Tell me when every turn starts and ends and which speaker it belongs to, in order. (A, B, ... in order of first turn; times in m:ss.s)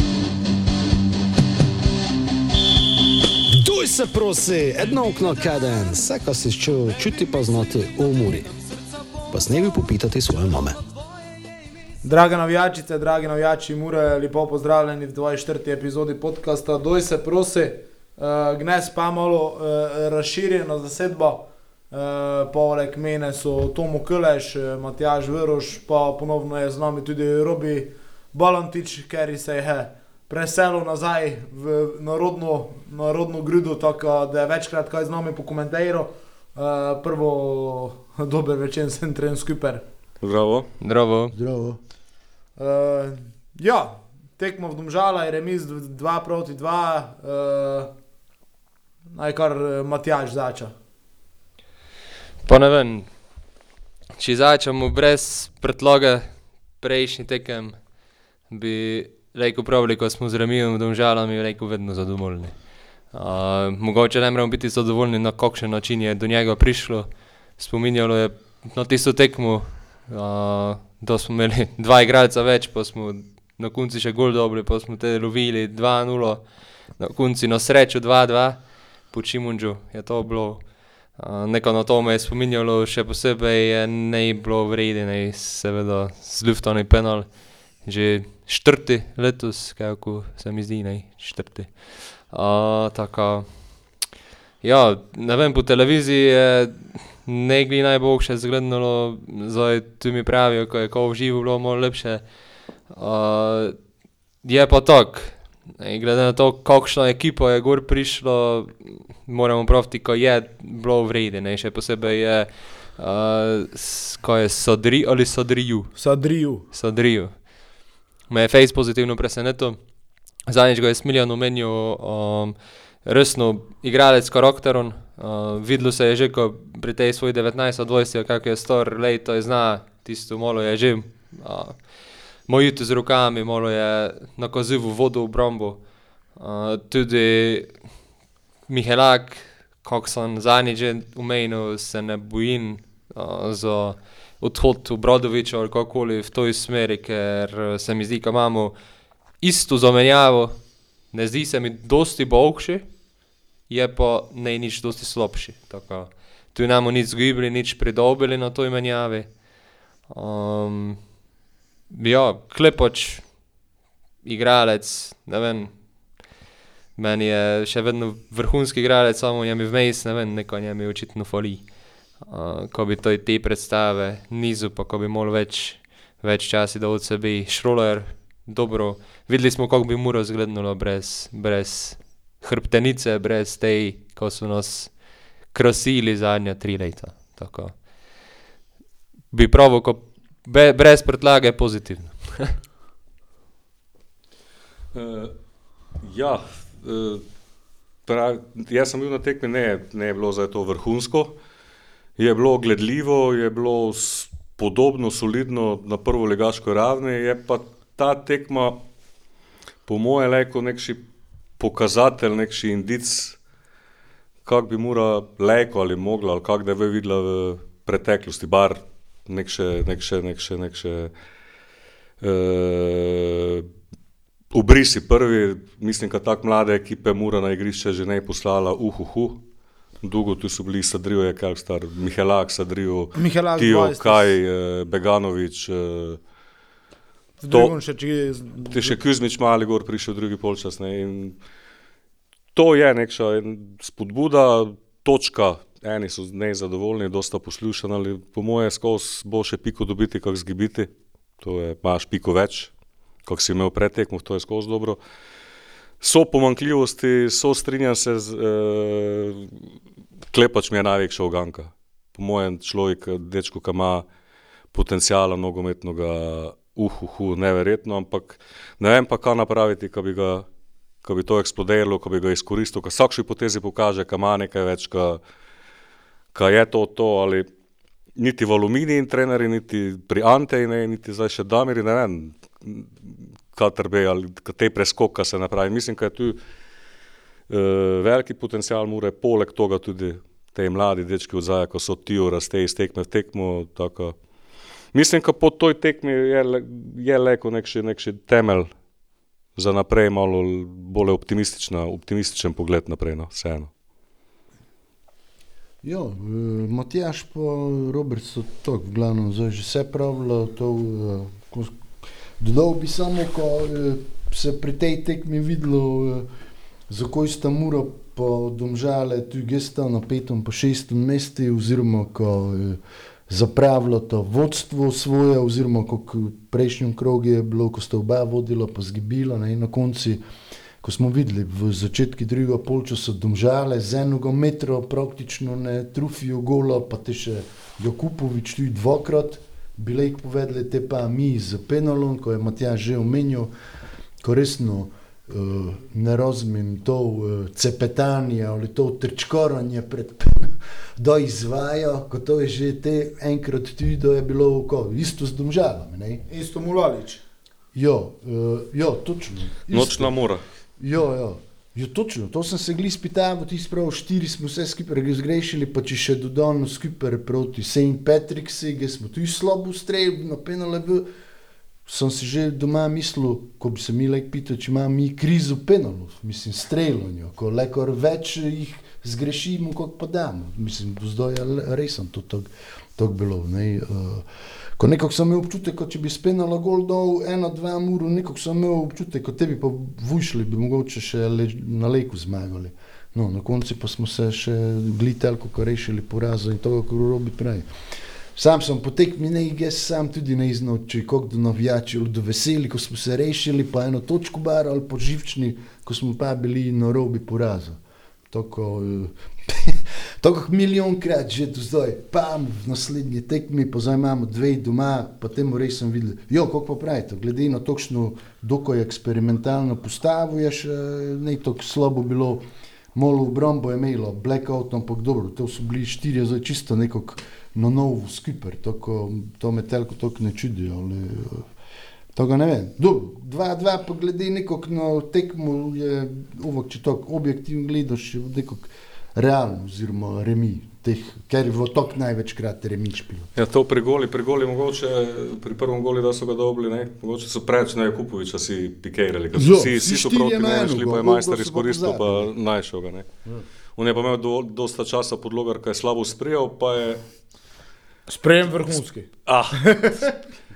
0:03.5-0:08.6 A
0:09.3-0:10.8 A
0:12.0-0:39.8 B
0:40.2-0:40.7 C
0:40.8-0:41.3 D
0:41.3-0:41.8 E
0:42.6-0:47.9 B
0:49.1-0:50.7 B
0:52.4-0:53.1 D
0:54.2-0:57.9 D
0:58.5-1:33.9 D
1:34.6-1:42.3 D
1:42.9-1:43.8 D
1:44.4-1:56.0 D
1:56.0-1:56.7 B
1:56.7-1:57.5 D
1:58.3-1:59.8 D
2:00.5-2:15.8 D
2:16.3-2:17.8 D
2:18.7-2:28.7 D
2:29.4-2:32.9 D
2:33.7-2:39.4 D
2:40.1-2:41.0 D
2:41.9-2:43.4 D
2:44.2-2:45.8 D
2:47.0-3:07.9 D
3:09.3-3:12.5 D
3:14.9-3:15.3 C
3:16.0-3:17.2 C
3:18.0-3:21.3 C
3:22.2-3:28.8 C
3:29.8-3:31.0 C
3:31.6-3:33.4 C
3:34.4-3:41.1 C
3:42.2-3:43.7 C
3:44.5-3:49.4 C
3:50.0-3:56.2 C
3:53.2-3:54.3 B
3:57.4-3:59.0 B
3:57.5-3:57.7 C
3:58.7-4:01.4 C
4:02.5-4:12.7 C
4:13.2-4:15.0 C
4:16.0-4:19.6 C
4:20.3-4:24.0 C
4:24.7-4:30.4 C
4:31.0-4:35.2 C
4:36.3-4:37.5 C
4:38.2-4:46.4 C
4:47.5-4:54.2 C
4:54.9-4:58.7 C
4:59.6-5:03.7 C
5:05.8-5:11.8 E
5:12.4-5:16.3 E
5:16.9-5:30.2 E
5:30.8-5:43.5 E
5:44.2-5:56.2 E
5:56.3-5:57.2 B
5:57.7-6:00.1 E
5:59.7-6:00.4 C
6:00.8-6:11.1 E
6:11.8-6:24.2 E
6:24.8-6:37.7 E
6:38.3-7:11.5 E
7:12.1-7:23.3 E
7:23.4-7:33.1 C
7:29.3-7:32.3 E
7:33.8-7:37.0 C
7:38.1-7:39.1 B
7:39.2-7:39.9 C
7:39.6-7:40.1 B